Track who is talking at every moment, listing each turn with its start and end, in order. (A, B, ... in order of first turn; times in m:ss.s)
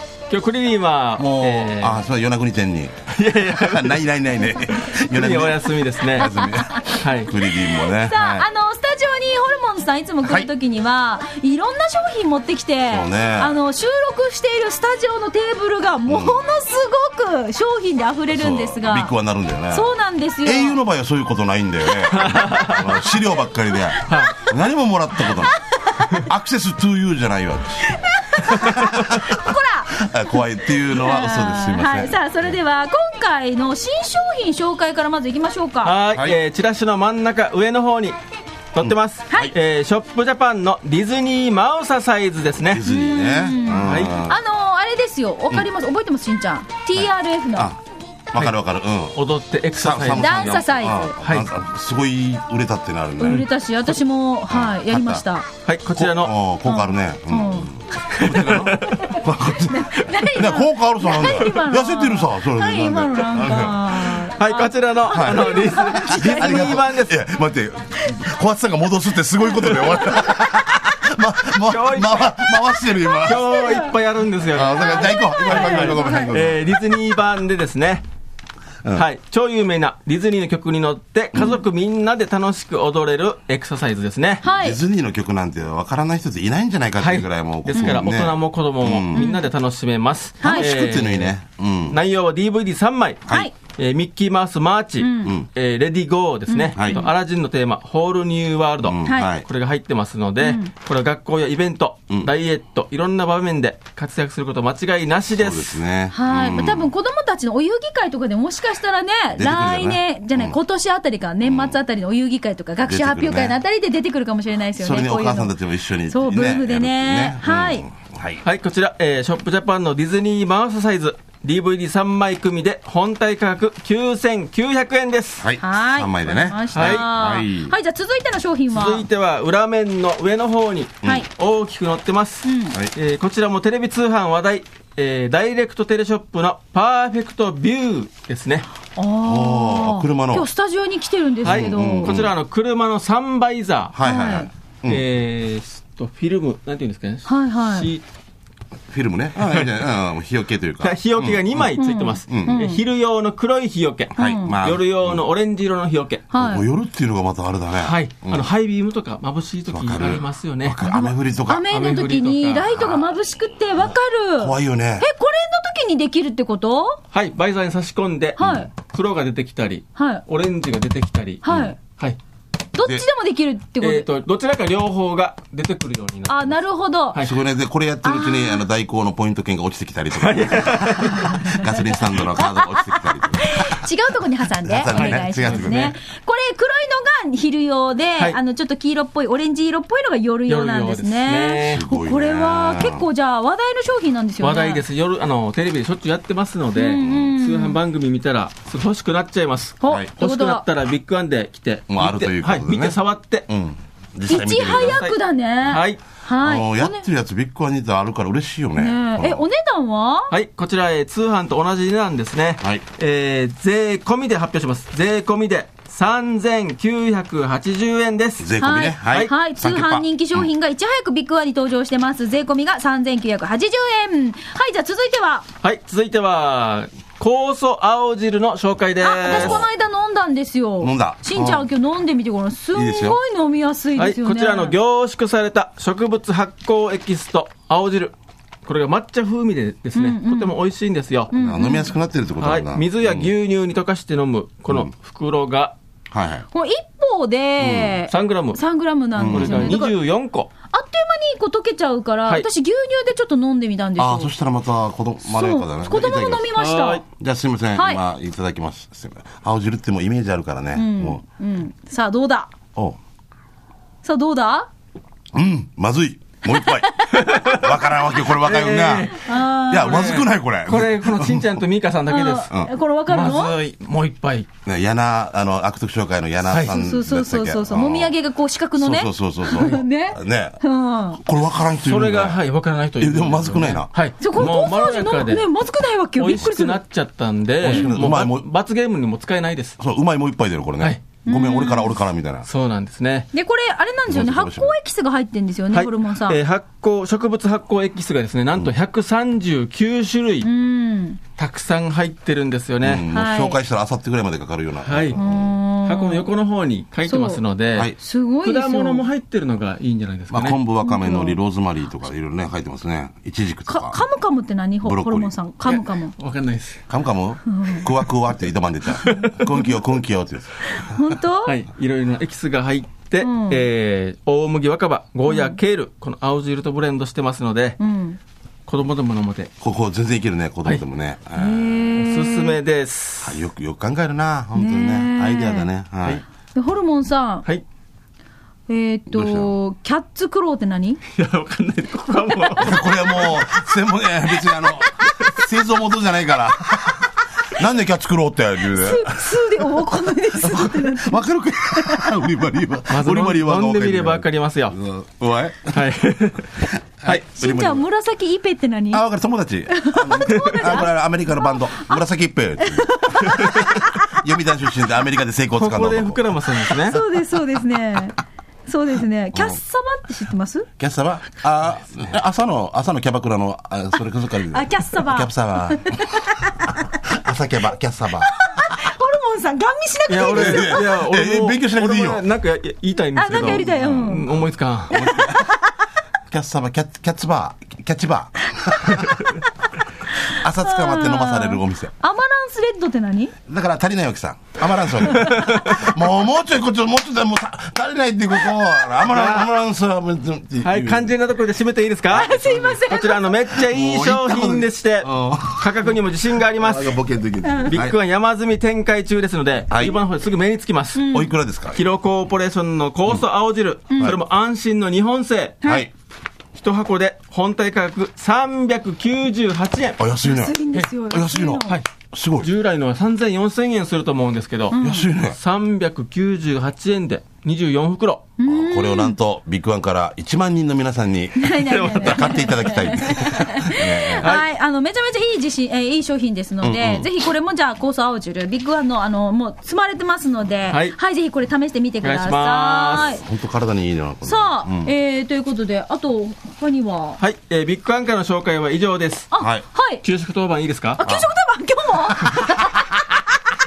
0:00.3-0:02.0 A
0:01.2-0:08.5 B
0:03.1-0:06.3 A
0:06.2-0:19.1 C
0:07.0-0:07.3 A
0:10.2-0:10.5 B
0:12.9-0:13.5 B
0:16.1-0:16.4 B
0:18.3-0:19.9 B
0:19.7-0:20.8 C
0:20.4-0:32.2 B
0:22.1-0:22.9 A
0:23.7-0:24.3 C
0:24.0-0:24.4 A
0:25.3-0:26.2 C
0:27.8-0:35.9 C
0:35.8-0:38.2 A
0:36.1-0:36.4 B
0:38.7-0:42.8 A
0:38.8-0:39.5 B
0:42.6-0:44.4 B
0:42.8-0:47.7 C
0:43.8-0:44.2 A
0:46.9-0:49.2 B
0:49.2-0:50.6 A
0:49.7-0:53.9 B
0:50.2-0:51.2 C
0:51.2-0:51.5 A
0:53.2-0:55.4 C
0:54.5-0:55.2 B
0:55.6-0:56.3 A
0:55.9-1:04.3 B
0:56.6-0:57.7 C
0:58.1-0:59.0 A
0:59.7-1:06.8 C
1:04.4-1:07.1 A
1:05.1-1:13.8 B
1:09.6-1:10.4 C
1:11.7-1:12.5 A
1:12.8-1:13.9 C
1:13.2-1:18.0 A
1:14.5-1:17.0 B
1:14.7-1:16.4 C
1:18.9-1:24.4 A
1:21.3-1:21.6 C
1:24.4-1:24.8 C
1:24.5-1:29.3 B
1:27.0-1:31.3 A
1:27.7-1:28.0 C
1:29.1-1:29.4 C
1:30.4-1:30.9 C
1:30.4-1:32.0 B
1:31.9-1:45.8 A
1:35.0-1:35.4 C
1:36.5-1:37.1 C
1:36.7-1:37.0 B
1:38.8-1:39.4 B
1:39.0-1:39.3 C
1:40.4-1:40.7 C
1:45.3-1:46.9 B
1:46.1-1:55.5 C
1:49.3-1:50.6 B
1:51.4-1:51.8 B
1:52.8-1:53.6 B
1:54.8-1:58.4 B
1:56.1-1:57.8 C
1:58.4-2:05.4 A
2:05.4-2:07.7 B
2:05.6-2:09.0 C
2:06.7-2:07.0 A
2:08.7-2:18.7 A
2:12.4-2:12.8 C
2:19.0-2:22.1 C
2:19.2-2:20.5 B
2:21.4-2:24.0 A
2:21.4-2:22.3 B
2:23.9-2:25.0 B
2:24.0-2:24.5 C
2:24.8-2:28.0 A
2:27.2-2:27.9 C
2:28.9-2:31.7 B
2:29.4-2:29.7 A
2:30.8-2:36.3 A
2:31.8-2:32.8 C
2:32.2-2:32.6 B
2:34.2-2:35.2 B
2:34.2-2:34.6 C
2:36.3-2:36.6 C
2:36.3-2:38.5 B
2:37.8-2:40.8 A
2:39.7-2:41.7 B
2:40.8-2:47.0 C
2:41.7-2:42.9 A
2:44.4-2:45.0 B
2:47.1-2:52.2 A
2:48.4-2:48.7 B
2:48.4-2:48.7 C
2:49.9-2:50.2 C
2:51.4-2:51.8 C
2:51.5-2:51.7 B
2:52.7-2:54.1 C
2:53.8-2:56.6 A
2:56.3-2:57.2 C
2:57.2-3:03.8 B
2:58.0-2:58.6 C
3:00.2-3:01.7 A
3:01.0-3:01.7 C
3:02.3-3:14.8 C
3:04.4-3:05.9 B
3:04.9-3:05.9 A
3:10.5-3:11.8 A
3:11.7-3:13.0 B
3:14.4-3:23.5 A
3:16.8-3:17.8 C
3:16.9-3:17.3 B
3:19.8-3:20.6 C
3:19.9-3:20.1 B
3:21.9-3:23.0 B
3:23.5-3:25.0 B
3:24.3-3:27.0 C
3:24.4-3:25.2 A
3:25.7-3:26.0 A
3:26.4-3:29.4 B
3:28.8-3:30.3 C
3:30.3-3:38.5 A
3:38.4-3:40.5 B
3:38.6-3:45.5 C
3:45.6-3:49.6 A
3:49.0-3:54.8 C
3:49.3-3:49.7 B
3:50.8-3:51.7 B
3:52.7-3:53.2 B
3:54.0-3:58.1 A
3:58.6-4:01.3 A
3:59.9-4:00.5 C
4:01.3-4:02.0 C
4:01.3-4:03.3 B
4:02.4-4:05.8 A
4:06.1-4:06.5 B
4:06.5-4:10.0 C
4:07.6-4:08.0 B
4:08.1-4:08.6 A
4:09.2-4:09.8 B
4:09.3-4:10.5 A
4:10.7-4:14.3 C
4:14.0-4:16.5 B
4:15.3-4:17.0 C
4:16.6-4:17.0 A
4:17.1-4:21.2 B
4:17.7-4:18.0 C
4:20.8-4:22.5 C
4:24.0-4:24.7 C
4:25.3-4:29.2 B
4:26.6-4:27.6 C
4:27.1-4:32.5 A
4:29.1-4:30.2 C
4:29.7-4:31.5 B
4:32.1-4:33.6 C
4:33.1-4:34.5 A
4:34.6-4:38.1 B
4:36.6-4:41.2 C
4:38.8-4:40.6 B
4:41.1-4:42.4 B
4:41.8-4:45.4 A
4:43.0-4:43.9 B
4:44.2-4:46.8 C
4:46.2-4:49.8 A
4:47.6-4:48.4 B
4:47.7-4:48.1 C
4:49.8-4:52.5 B
4:51.2-4:51.9 C
4:52.4-4:53.3 A
4:53.3-4:56.4 C
4:54.1-4:54.7 B
4:55.7-5:00.5 A
5:00.4-5:01.2 C
5:01.4-5:03.1 A
5:02.8-5:05.5 B
5:03.1-5:03.6 C
5:04.8-5:05.2 A
5:05.1-5:06.3 C
5:05.8-5:10.6 A
5:07.0-5:07.4 C
5:08.0-5:09.0 C
5:10.3-5:14.0 B
5:10.8-5:11.4 C
5:13.6-5:16.1 C
5:14.8-5:15.3 B
5:15.7-5:16.8 A
5:16.9-5:21.2 B
5:17.4-5:17.8 C
5:19.0-5:19.5 A
5:20.8-5:21.6 C
5:21.4-5:27.8 A
5:23.2-5:23.6 C
5:25.3-5:25.6 C
5:27.8-5:28.2 C
5:28.7-5:29.5 A
5:29.6-5:31.9 B
5:31.3-5:32.6 C
5:31.9-5:33.4 A
5:33.2-5:36.2 B
5:34.5-5:35.7 C
5:36.5-5:37.4 C
5:38.7-5:41.0 C
5:39.1-5:39.5 B
5:41.1-5:42.8 A
5:42.6-5:49.3 B
5:48.7-5:52.1 C
5:50.3-5:55.9 B
5:52.9-5:54.8 A
5:55.7-5:56.5 A
5:57.0-5:57.8 B
5:57.1-5:59.0 C
5:58.9-6:07.0 B
5:59.7-6:02.0 C
6:02.6-6:04.2 C
6:05.6-6:07.0 A
6:06.9-6:10.7 C
6:09.3-6:09.6 B
6:10.8-6:18.3 B
6:14.5-6:16.8 C
6:18.3-6:20.9 C
6:20.1-6:25.0 A
6:20.2-6:22.2 B
6:23.2-6:24.3 C
6:23.3-6:25.5 B
6:24.9-6:25.6 C
6:26.3-6:29.2 B
6:30.2-6:33.3 C
6:30.2-6:31.9 B
6:33.4-6:41.1 B
6:35.1-6:35.6 C
6:35.2-6:35.8 A
6:39.0-6:39.5 A
6:40.6-6:47.0 A
6:42.1-6:43.4 C
6:42.2-6:42.8 B
6:43.5-6:45.9 B
6:46.5-6:47.9 B
6:47.4-6:47.8 C
6:47.7-6:51.1 A
6:49.7-6:50.0 B
6:50.9-6:51.3 C
6:51.1-6:51.9 B
6:51.7-6:55.6 A
6:53.9-6:54.2 C
6:55.6-6:55.9 C
6:55.6-6:55.9 B
6:56.6-7:00.0 A
7:00.0-7:02.5 B
7:00.2-7:01.8 C
7:02.4-7:04.8 A
7:04.7-7:05.1 C
7:04.8-7:05.4 B
7:05.3-7:08.2 A
7:08.4-7:09.2 C
7:08.5-7:14.3 B
7:11.4-7:23.2 C
7:11.6-7:12.5 A
7:14.2-7:14.4 A
7:16.6-7:17.1 B
7:20.7-7:21.0 A
7:22.0-7:23.1 A
7:22.9-7:24.9 B
7:24.2-7:27.2 C
7:27.2-7:29.3 A
7:29.3-7:30.0 C
7:29.4-7:29.6 B
7:30.0-7:31.0 A
7:31.0-7:32.9 C
7:31.0-7:31.3 B
7:32.1-7:32.9 B